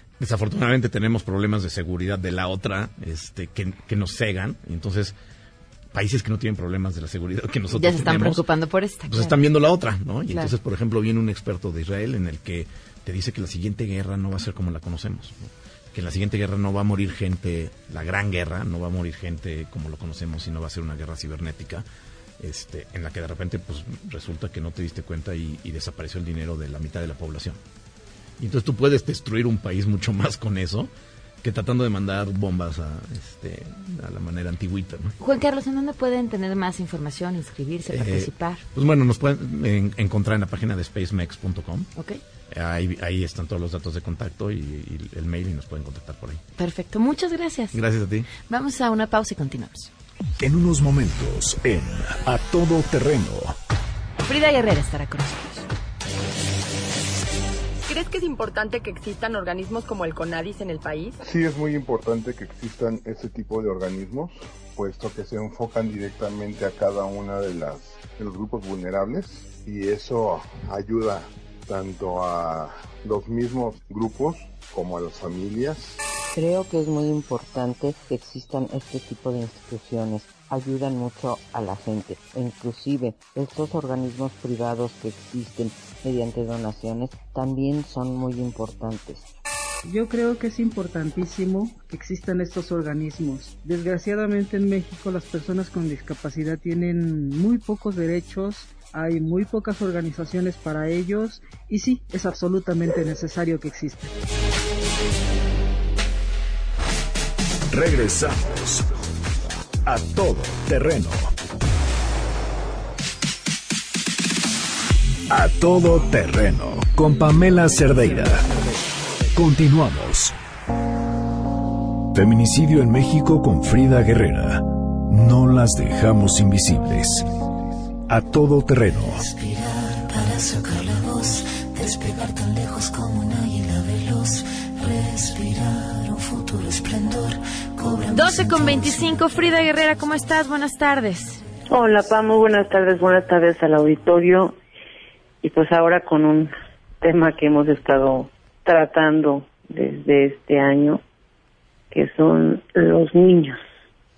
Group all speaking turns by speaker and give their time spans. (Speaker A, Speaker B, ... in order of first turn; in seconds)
Speaker A: 0.2-5.2, 5.9-8.4, 9.1-21.9, 22.4-27.6, 28.4-30.9, 31.4-35.1, 37.9-41.9, 42.5-46.4, 47.7-48.3
Speaker B: 7.7-9.3, 35.2-38.6, 46.6-47.8, 48.5-49.9, 54.2-55.7, 138.1-141.4
Speaker C: 50.4-53.5, 107.7-108.8, 109.9-111.3, 115.3-118.5, 119.3-120.3, 122.1-127.3, 128.1-129.2
Speaker D: 57.9-61.2
Speaker E: 61.2-76.0
Speaker F: 76.3-89.3
Speaker G: 89.9-104.1
Speaker H: 129.2-139.3
Speaker I: 141.7-144.5, 145.4-151.0, 151.9-153.6